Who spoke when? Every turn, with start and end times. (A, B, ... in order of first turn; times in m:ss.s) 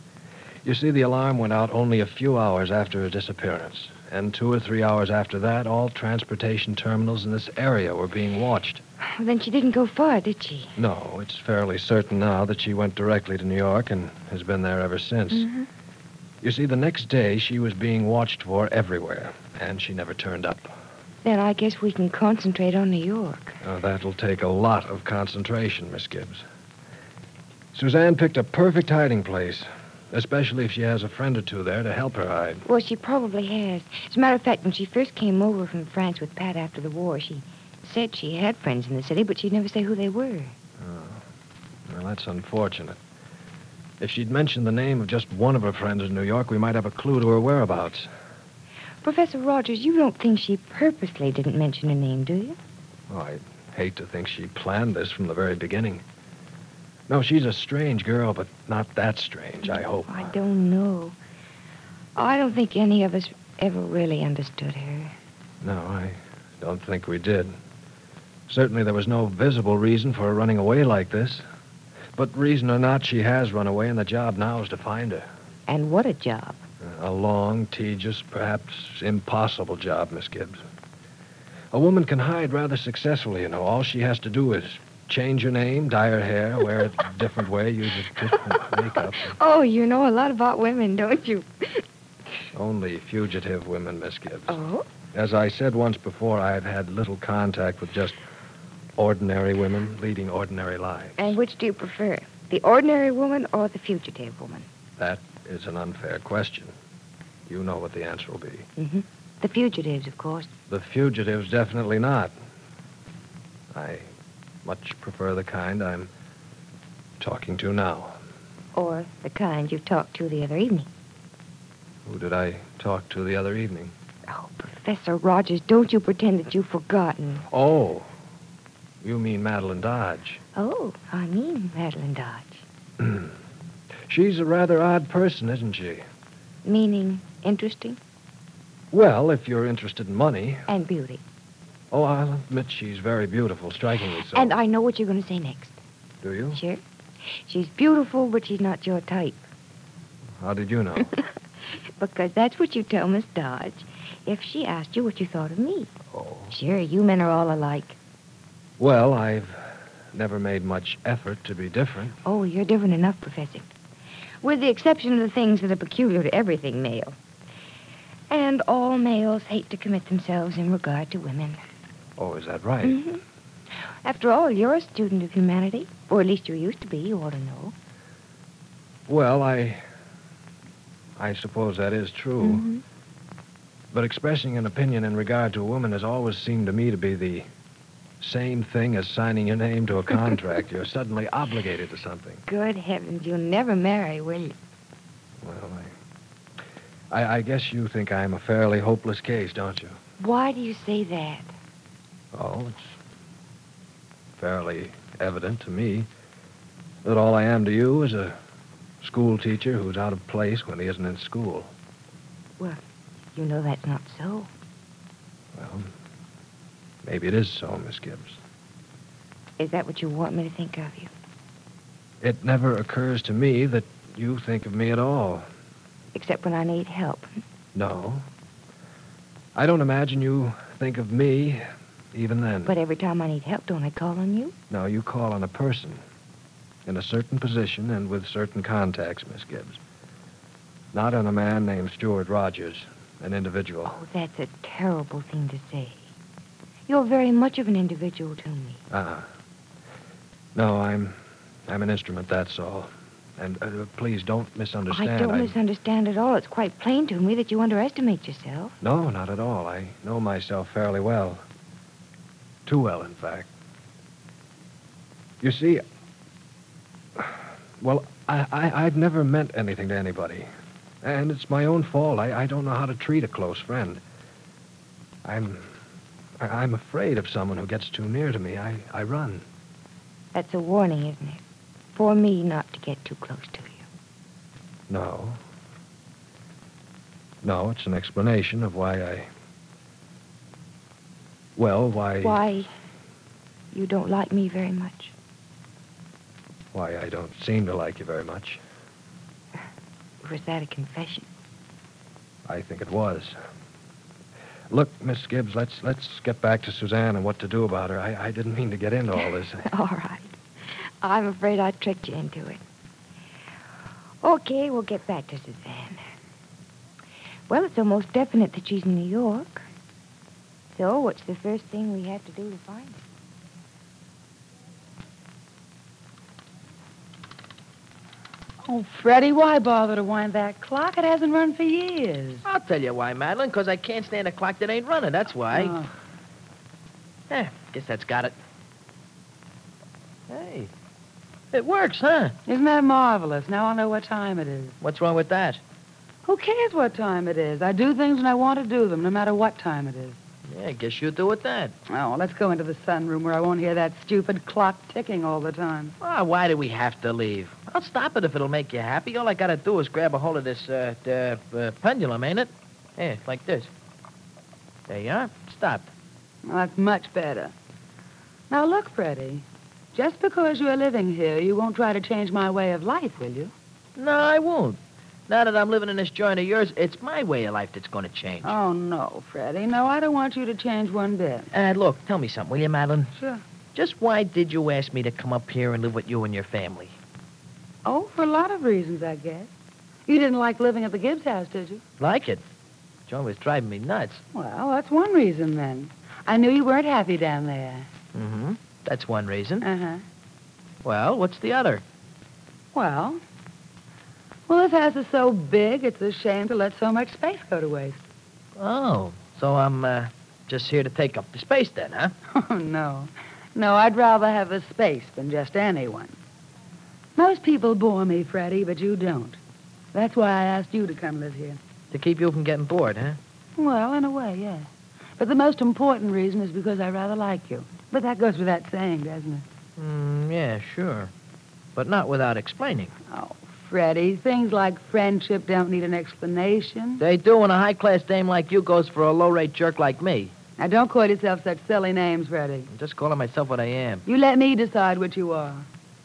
0:00.6-0:08.8 A
0:09.2-0:10.8 B
0:10.8-0:15.5 A
0:15.3-0:15.7 B
0:16.4-0:20.7 A
0:21.2-0:23.6 B
0:23.6-0:26.4 A
0:27.7-0:32.6 A
0:32.7-0:40.6 B
0:40.8-0:41.2 A
0:41.9-0:43.0 A
0:44.0-0:48.1 A
0:49.0-0:52.6 B
0:53.1-0:56.0 A
0:57.1-1:00.4 A
0:59.6-1:01.2 B
1:02.2-1:05.1 B
1:05.6-1:07.5 A
1:08.5-1:11.4 A
1:12.2-1:15.3 A
1:15.7-1:16.6 B
1:16.8-1:20.6 A
1:21.7-1:29.4 A
1:29.3-1:31.8 B
1:32.5-1:34.6 A
1:34.5-1:34.8 B
1:35.1-1:38.2 A
1:39.0-1:41.4 A
1:41.2-1:44.7 B
1:45.0-1:46.7 A
1:47.5-1:48.7 A
1:48.8-1:50.5 B
1:50.7-1:52.4 A
1:53.7-1:54.1 A
1:54.6-1:56.1 A
1:57.2-1:58.2 A
1:58.8-2:00.9 B
2:02.0-2:03.9 A
2:04.3-2:07.4 B
2:07.5-2:08.1 A
2:09.0-2:10.4 A
2:10.6-2:12.6 B
2:13.0-2:13.4 A
2:14.1-2:16.0 A
2:16.6-2:18.0 B
2:18.9-2:20.7 A
2:20.7-2:21.2 B
2:21.9-2:24.6 A
2:24.3-2:25.8 B
2:26.2-2:26.6 A
2:26.5-2:26.8 B
2:27.4-2:29.5 B
2:30.4-2:31.1 A
2:32.0-2:35.9 B
2:36.1-2:36.6 A
2:36.5-2:38.0 B
2:38.8-2:42.2 A
2:42.2-2:43.7 B
2:44.4-2:47.2 B
2:48.3-2:51.6 B
2:52.2-2:53.0 A
2:52.8-2:53.2 B
2:54.0-2:57.7 B
2:59.1-2:59.8 A
3:01.2-3:02.7 A
3:02.4-3:02.8 B
3:03.9-3:07.5 A
3:08.2-3:12.4 A
3:12.5-3:14.6 B
3:15.4-3:15.9 A
3:17.1-3:20.0 A
3:20.2-3:21.5 B
3:22.3-3:23.0 A
3:24.4-3:26.1 A
3:27.0-3:28.4 A
3:29.0-3:31.7 A
3:33.3-3:34.5 B
3:35.6-3:35.9 A
3:37.0-3:38.4 A
3:39.6-3:41.1 B
3:42.2-3:45.5 A
3:46.1-3:47.3 B
3:47.8-3:48.2 A
3:49.6-3:52.8 A
3:52.7-3:54.5 B
3:54.7-3:56.0 A
3:56.9-3:59.8 A
4:00.9-4:04.0 A
4:03.9-4:06.0 B
4:06.9-4:08.8 B
4:08.9-4:09.3 A
4:10.6-4:15.6 A
4:14.9-4:18.8 B
4:18.8-4:21.4 A
4:22.7-4:23.5 A
4:25.4-4:25.8 A
4:27.2-4:30.5 A
4:31.0-4:34.0 A
4:35.2-4:35.7 A
4:36.4-4:39.4 A
4:40.3-4:41.4 B
4:41.9-4:43.9 B
4:44.9-4:45.4 A
4:47.4-4:49.3 A
4:51.6-4:52.4 A
4:52.2-4:52.7 B
4:53.7-4:55.1 B
4:56.7-4:58.6 A
5:00.2-5:01.3 B
5:02.5-5:03.4 A
5:04.7-5:09.7 A
5:09.7-5:12.6 B
5:14.2-5:16.0 B
5:17.5-5:19.6 B
5:20.7-5:23.1 B
5:28.6-5:32.4 C
5:32.4-5:35.8 D
5:35.5-5:35.9 C
5:37.3-5:38.4 D
5:40.3-5:40.7 D
5:41.5-5:42.4 D
5:42.5-5:44.8 C
5:44.8-5:45.6 D
5:46.3-5:50.2 C
5:50.5-5:51.7 D
5:51.9-5:55.9 C
5:56.0-6:03.7 D
6:04.9-6:05.9 D
6:06.4-6:07.5 C
6:08.5-6:13.5 C
6:14.0-6:14.8 D
6:15.3-6:18.6 D
6:18.4-6:21.5 C
6:21.5-6:23.1 D
6:23.2-6:23.4 C
6:23.7-6:27.0 D
6:27.8-6:29.5 C
6:30.1-6:31.8 C
6:32.0-6:32.4 D
6:33.1-6:34.2 D
6:34.3-6:37.9 C
6:38.1-6:39.7 D
6:39.6-6:40.0 C
6:40.8-6:41.8 D
6:42.7-6:43.2 C
6:44.5-6:48.0 C
6:48.6-6:52.2 D
6:52.3-6:56.2 C
6:57.2-6:59.4 C
6:59.9-7:01.6 C
7:01.9-7:03.2 D
7:03.6-7:09.5 C
7:09.8-7:11.1 D
7:11.8-7:12.9 D
7:13.1-7:17.0 C
7:17.0-7:20.3 D
7:20.6-7:22.7 C
7:22.7-7:24.0 D
7:24.1-7:25.7 C